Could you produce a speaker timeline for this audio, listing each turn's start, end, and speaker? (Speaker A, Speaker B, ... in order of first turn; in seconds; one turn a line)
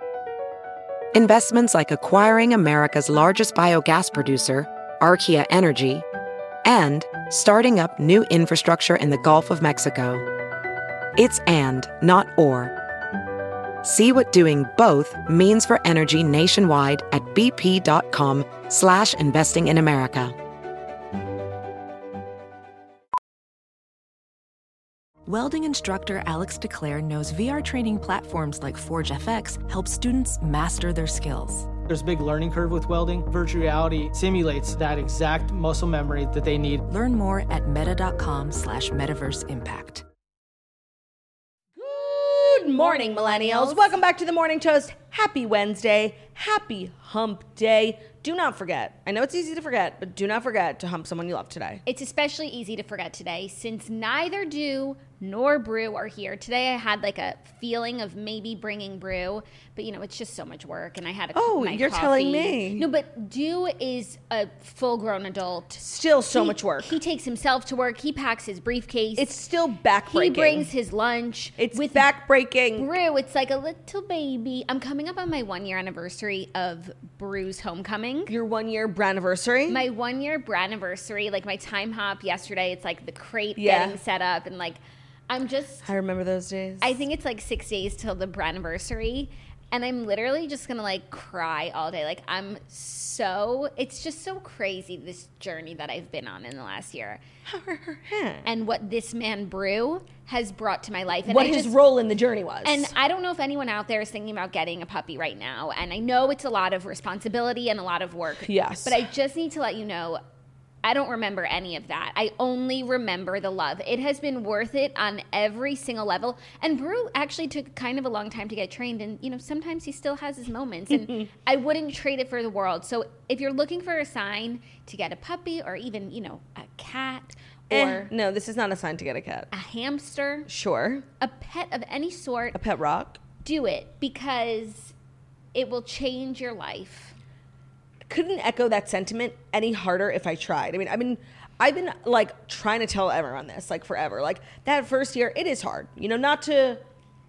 Speaker A: 1.1-6.0
Speaker A: 6.7-10.2
Speaker A: 11.2-12.7
Speaker A: 13.8-20.4
Speaker B: 25.2-31.7
Speaker C: 31.9-36.8
Speaker B: 36.8-40.0
Speaker D: 41.8-51.8
Speaker E: 42.7-44.0
Speaker E: 51.9-69.3
Speaker D: 61.4-62.9
Speaker D: 65.8-67.0
Speaker D: 69.2-70.7
Speaker E: 70.1-72.1
Speaker D: 71.6-72.9
Speaker E: 72.8-78.4
Speaker D: 78.3-79.8
Speaker E: 79.7-85.9
Speaker D: 83.6-84.0
Speaker D: 85.8-87.0
Speaker E: 86.8-97.2
Speaker D: 97.5-98.5
Speaker E: 98.4-101.8
Speaker D: 101.2-103.0
Speaker E: 102.6-110.2
Speaker D: 108.4-109.0
Speaker E: 110.8-128.1
Speaker D: 127.7-129.5
Speaker E: 129.5-130.5
Speaker D: 130.5-131.1
Speaker E: 131.2-132.6
Speaker D: 132.5-133.2
Speaker E: 133.4-134.9
Speaker E: 135.5-137.2
Speaker D: 138.1-146.8